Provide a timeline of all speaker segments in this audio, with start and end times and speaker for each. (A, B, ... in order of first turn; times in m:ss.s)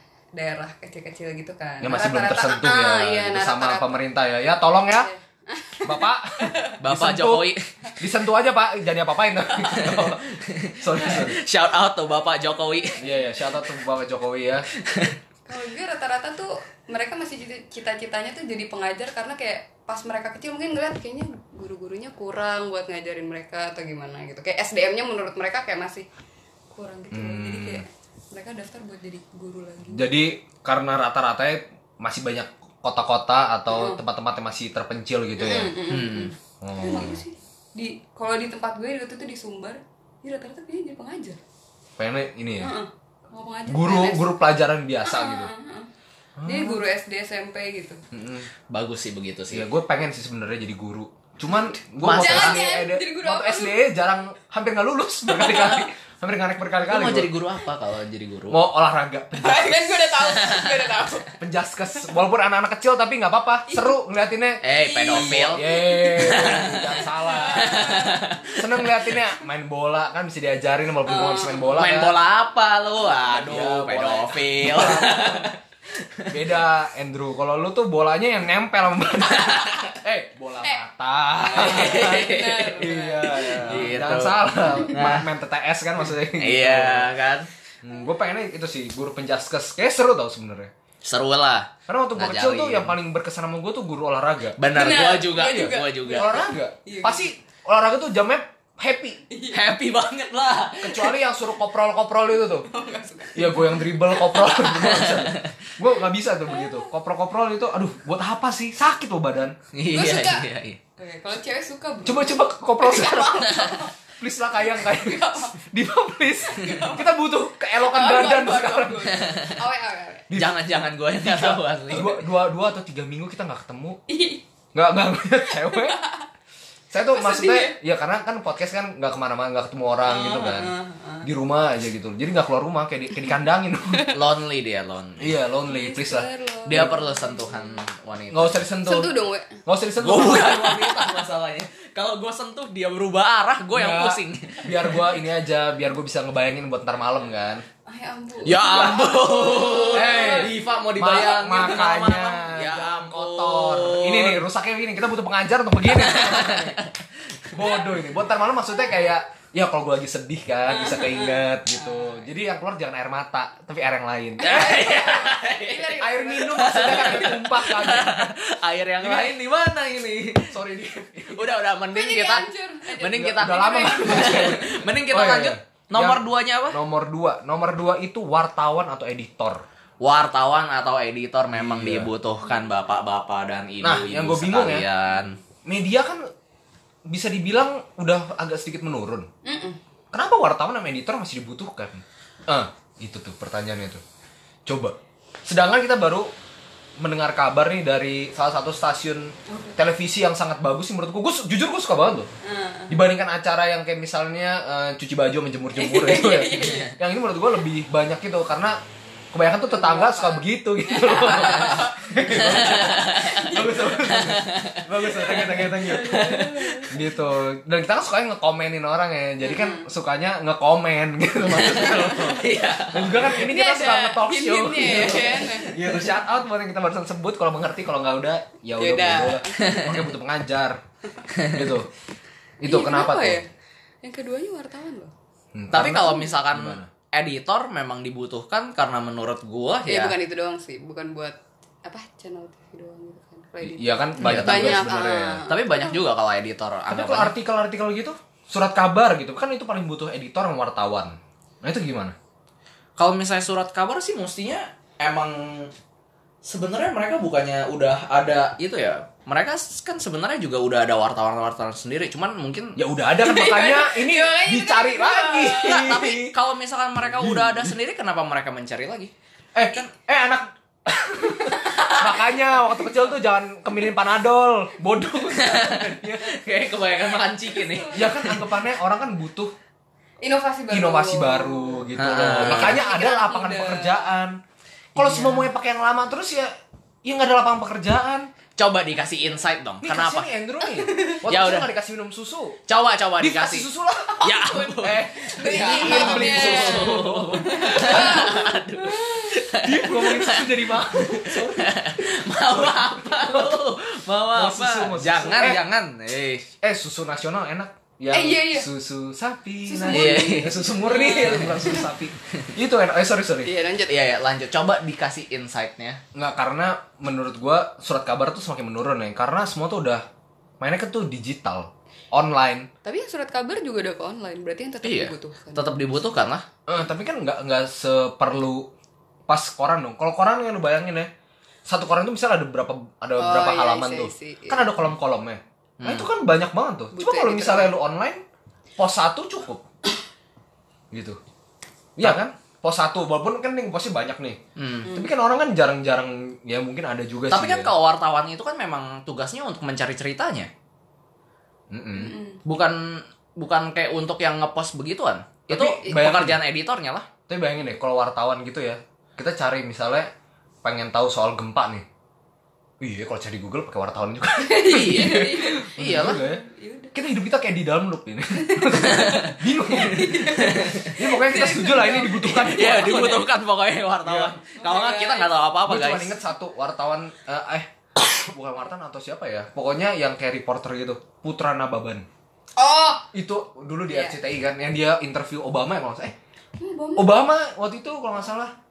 0:00.3-0:04.0 A
0:01.8-0:05.1 B
0:04.9-0:06.8 A
0:05.8-0:10.2 B
0:06.8-0:07.6 C
0:09.6-0:13.0 C
0:10.8-0:11.4 B
0:12.2-0:13.5 A
0:13.0-0:14.7 B
0:14.8-0:15.2 C
0:15.5-0:26.1 A
0:26.7-0:30.0 A
0:27.1-0:27.8 B
0:29.9-0:35.8 B
0:33.7-0:34.0 A
0:35.4-0:41.4 A
0:35.9-0:36.3 C
0:36.6-0:37.2 B
0:42.0-0:42.7 B
0:42.6-0:44.3 A
0:43.7-0:45.5 B
0:45.0-0:45.9 A
0:46.4-0:46.8 B
0:46.4-0:48.0 A
0:48.1-0:48.5 B
0:48.7-0:49.7 C
0:49.5-0:57.3 B
0:52.0-0:52.6 C
0:52.0-0:53.9 A
0:55.3-0:55.8 A
0:56.8-0:58.6 C
0:58.5-1:00.1 B
0:59.4-1:01.4 A
1:00.2-1:00.9 C
1:01.4-1:08.0 B
1:03.7-1:04.0 A
1:04.6-1:08.6 C
1:04.7-1:08.5 A
1:08.6-1:12.2 B
1:11.0-1:11.7 A
1:11.7-1:16.3 C
1:13.2-1:15.5 B
1:16.3-1:27.1 B
1:19.4-1:19.9 C
1:21.4-1:23.8 A
1:21.4-1:25.3 C
1:26.2-1:27.5 C
1:27.8-1:30.7 B
1:31.0-1:32.9 C
1:31.9-1:34.6 B
1:34.6-1:36.4 C
1:34.7-1:37.3 A
1:36.1-1:39.2 B
1:39.3-1:39.8 A
1:39.5-1:41.1 C
1:40.8-1:42.7 B
1:42.4-1:45.0 A
1:43.3-1:49.6 B
1:44.7-1:45.7 C
1:46.5-1:46.9 A
1:49.7-1:50.8 C
1:49.9-1:55.6 A
1:52.0-1:59.2 B
1:56.4-2:00.3 A
1:59.0-1:59.6 C
2:00.3-2:00.6 B
2:00.3-2:02.2 C
2:01.2-2:04.0 B
2:04.1-2:04.4 A
2:04.7-2:06.0 B
2:05.5-2:06.2 A
2:06.9-2:14.1 B
2:07.1-2:07.8 A
2:10.0-2:11.3 A
2:13.9-2:14.2 A
2:14.1-2:15.3 C
2:15.2-2:17.0 B
2:15.6-2:17.9 A
2:16.6-2:18.6 C
2:18.3-2:21.3 B
2:18.8-2:19.6 A
2:20.0-2:25.0 C
2:23.7-2:27.6 B
2:27.8-2:30.7 A
2:28.4-2:34.4 C
2:29.9-2:36.8 B
2:35.8-2:37.5 C
2:37.5-2:45.1 B
2:40.7-2:42.2 A
2:44.4-2:47.3 A
2:44.4-2:50.5 C
2:45.9-2:48.3 B
2:49.0-2:49.4 B
2:50.5-2:51.5 B
2:51.2-2:56.8 C
2:51.9-2:54.6 A
2:53.1-2:59.6 B
3:00.0-3:05.4 C
3:01.5-3:02.1 B
3:03.8-3:04.8 B
3:05.6-3:06.2 B
3:07.1-3:09.3 B
3:09.4-3:09.8 A
3:10.1-3:14.0 B
3:14.6-3:16.3 B
3:17.0-3:22.3 B
3:19.5-3:19.8 A
3:22.4-3:23.0 A
3:22.9-3:28.8 B
3:25.7-3:27.0 A
3:26.6-3:26.9 C
3:29.3-3:50.8 B
3:29.6-3:34.2 A
3:32.2-3:36.9 C
3:35.2-3:37.2 A
3:39.4-3:39.9 A
3:41.5-3:43.5 C
3:43.3-3:45.7 A
3:44.8-3:46.0 C
3:48.8-3:50.0 A
3:49.6-3:49.8 C
3:51.3-3:51.6 C
3:51.5-3:51.9 B
3:52.6-3:53.4 B
3:52.6-3:53.5 A
3:54.0-3:55.1 A
3:55.5-3:56.9 B
3:55.7-4:00.1 C
3:59.8-4:06.0 A
4:03.6-4:05.4 B
4:04.2-4:04.8 C
4:05.5-4:07.3 C
4:06.9-4:12.1 B
4:13.0-4:15.7 C
4:16.4-4:22.8 C
4:22.8-4:26.3 B
4:23.2-4:26.0 A
4:25.6-4:29.1 C
4:27.0-4:27.7 B
4:29.5-4:36.4 B
4:31.6-4:32.0 C
4:35.3-4:38.6 C
4:37.7-4:38.0 A
4:37.9-4:39.5 B
4:40.2-4:44.1 A
4:40.7-4:44.4 B
4:42.0-4:42.8 C
4:44.9-4:46.5 B
4:45.0-4:45.5 C
4:47.0-4:48.3 B
4:48.6-4:50.3 C
4:49.8-4:52.6 B
4:50.7-4:51.2 A
4:51.2-4:51.7 C
4:52.7-4:53.7 C
4:53.2-4:58.3 B
4:54.1-4:59.3 A
4:54.2-5:06.5 C
4:59.5-5:03.6 B
5:04.3-5:05.6 B
5:06.6-5:13.5 B
5:08.1-5:08.7 A
5:09.7-5:11.9 A
5:09.9-5:11.6 C
5:13.4-5:14.0 A
5:13.9-5:16.0 C
5:16.1-5:20.0 B
5:20.6-5:22.7 B
5:22.8-5:26.0 A
5:24.8-5:26.4 C
5:26.7-5:28.7 B
5:29.3-5:31.1 B
5:31.7-5:38.2 B
5:33.2-5:34.8 A
5:35.8-5:36.1 C
5:36.9-5:37.7 A
5:38.8-5:39.6 B
5:40.9-5:41.2 B
5:42.0-5:47.7 B
5:44.6-5:44.9 C
5:44.8-5:45.1 A
5:47.3-5:50.5 C
5:51.7-5:52.2 B
5:51.9-5:52.4 A
5:52.4-5:57.1 C
5:55.5-5:56.4 B
5:57.3-6:00.1 B
6:00.6-6:01.8 B
6:02.8-6:06.4 B
6:04.4-6:06.9 A
6:04.7-6:06.2 C
6:06.9-6:13.3 B
6:08.4-6:13.1 A
6:08.8-6:09.4 C
6:10.0-6:10.9 C
6:12.3-6:16.1 C
6:14.0-6:14.4 B
6:14.5-6:15.4 A
6:15.7-6:22.0 B
6:22.6-6:23.1 A
6:23.1-6:26.1 B
6:23.9-6:24.2 A
6:26.6-6:27.2 A
6:27.0-6:28.5 B